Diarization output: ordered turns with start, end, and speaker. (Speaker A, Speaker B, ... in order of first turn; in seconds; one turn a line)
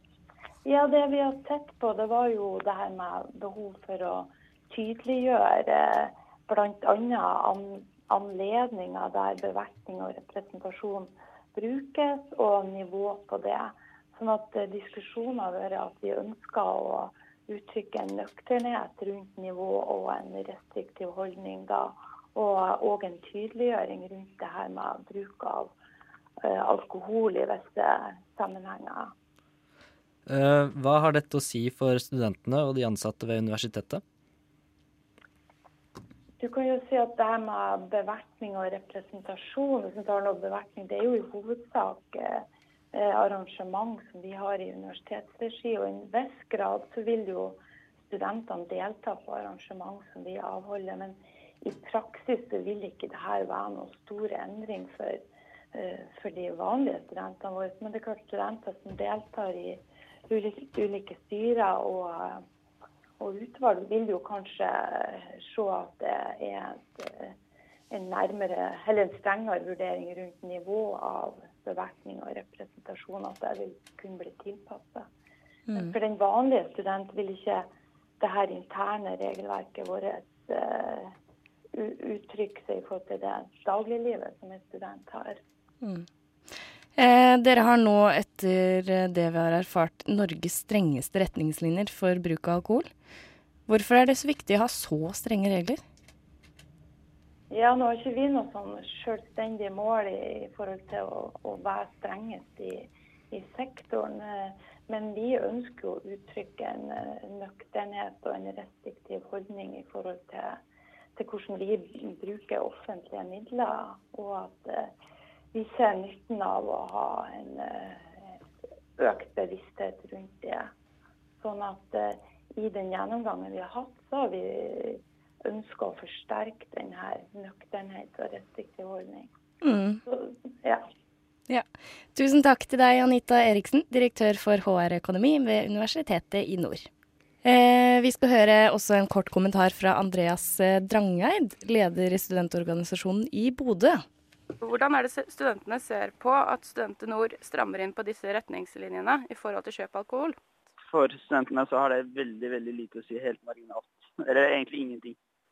Speaker A: 0.6-25.7
Speaker A: 26.4-29.1
Speaker B: 30.3-34.0
Speaker A: 36.4-62.4
Speaker A: 63.2-67.3
Speaker A: 67.9-75.1
Speaker C: 75.7-75.9
Speaker A: 75.7-81.1
Speaker A: 81.7-85.4
Speaker C: 85.8-86.1
Speaker C: 87.0-92.9
Speaker C: 93.7-95.8
Speaker A: 97.5-110.6
Speaker A: 111.2-114.9
Speaker A: 115.5-118.1
Speaker A: 119.0-120.7
Speaker A: 121.4-129.3
Speaker C: 129.6-130.0
Speaker A: 130.1-130.8
Speaker C: 131.5-136.9
Speaker C: 137.4-144.0
Speaker D: 144.6-150.4
Speaker E: 150.8-155.2